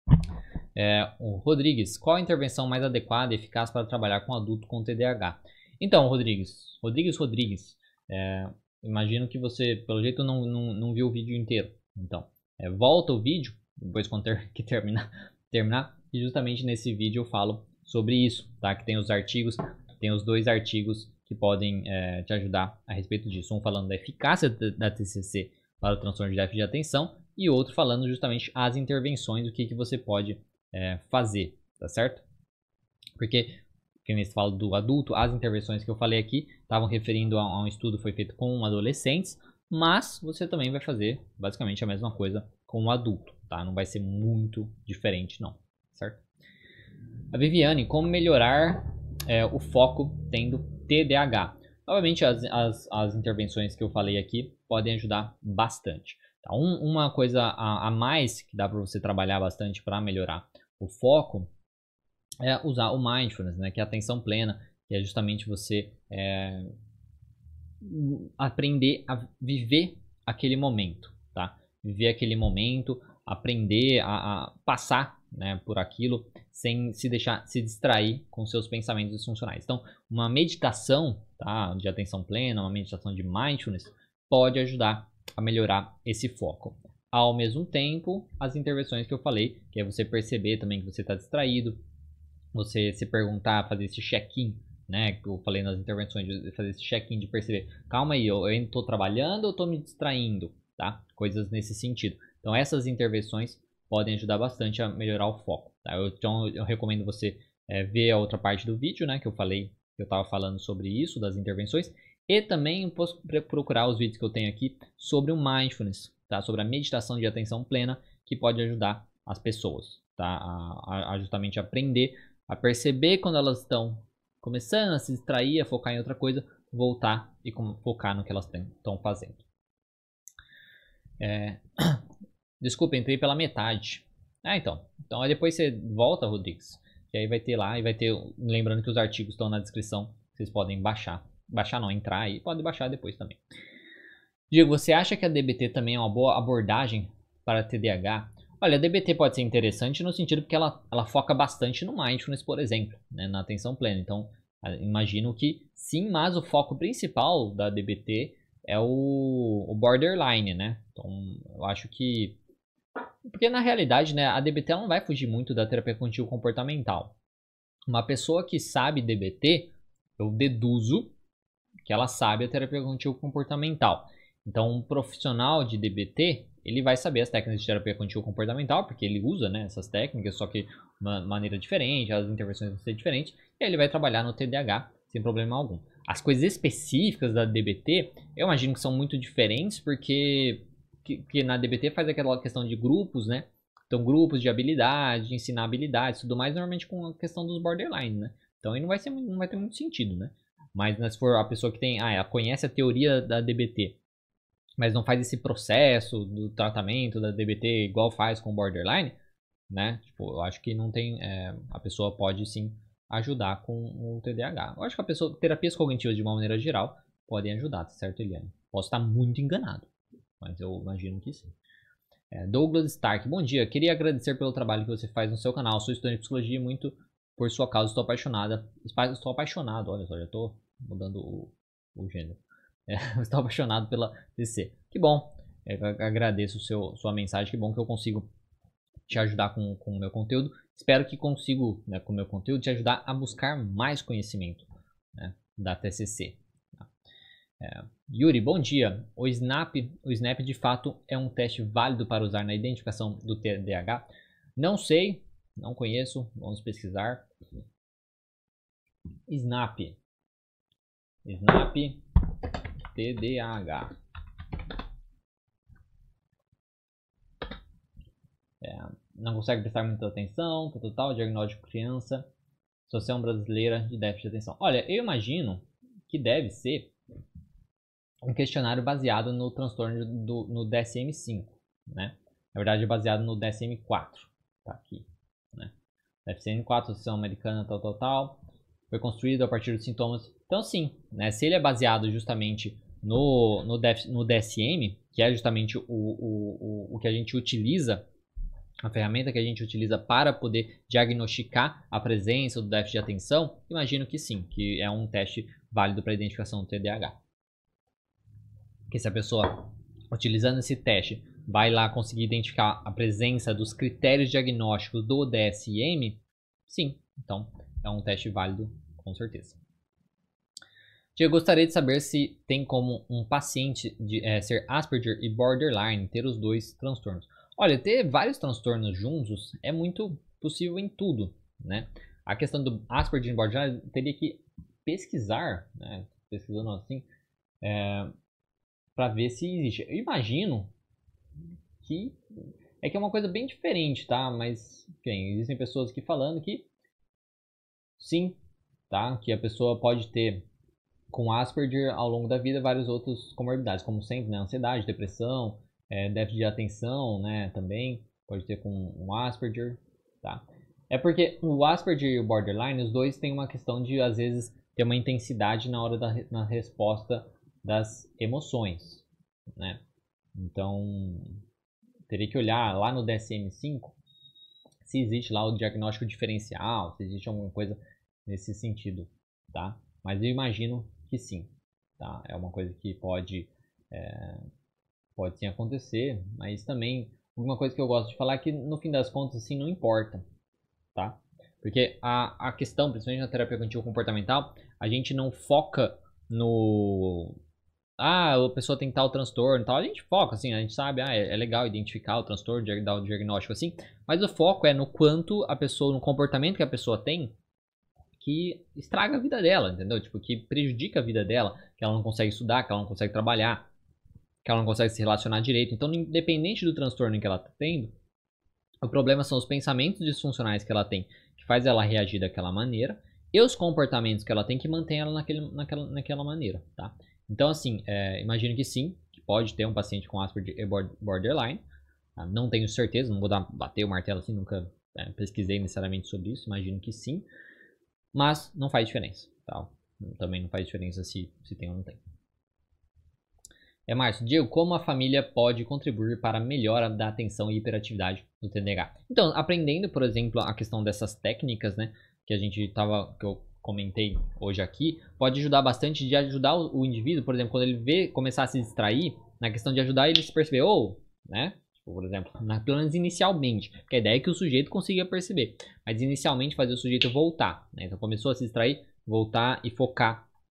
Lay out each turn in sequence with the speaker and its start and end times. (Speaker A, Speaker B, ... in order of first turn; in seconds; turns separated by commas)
Speaker A: 0.7-32.2, Speaker A: 33.2-46.2, Speaker A: 47.3-61.5, Speaker A: 62.4-66.7, Speaker A: 67.8-91.8, Speaker A: 92.5-129.4, Speaker A: 131.2-132.0, Speaker A: 132.6-143.4, Speaker A: 144.5-162.4, Speaker A: 163.3-167.1, Speaker A: 167.9-171.1, Speaker A: 171.8-204.0, Speaker A: 204.8-209.2, Speaker A: 209.7-219.9, Speaker A: 220.4-221.5, Speaker A: 222.3-238.3, Speaker A: 239.1-246.8, Speaker A: 247.6-254.0, Speaker A: 254.6-257.3, Speaker A: 259.3-260.0, Speaker A: 261.2-262.0, Speaker A: 262.9-263.9, Speaker A: 268.6-272.3, Speaker A: 272.9-276.9, Speaker A: 278.2-285.7, Speaker A: 286.2-298.1, Speaker A: 298.8-307.1, Speaker A: 308.9-319.6, Speaker A: 321.1-337.1, Speaker A: 337.6-338.1, Speaker A: 338.9-340.7, Speaker A: 341.8-342.2, Speaker A: 342.8-346.7, Speaker A: 348.0-348.4, Speaker A: 348.9-350.4, Speaker A: 351.1-369.8, Speaker A: 370.3-371.4, Speaker A: 372.1-373.9, Speaker A: 374.8-384.5, Speaker A: 385.1-390.2, Speaker A: 390.9-397.4, Speaker A: 398.0-407.3, Speaker A: 408.2-413.7, Speaker A: 414.4-417.9, Speaker A: 418.8-431.6, Speaker A: 432.2-437.2, Speaker A: 438.1-442.0, Speaker A: 443.9-470.2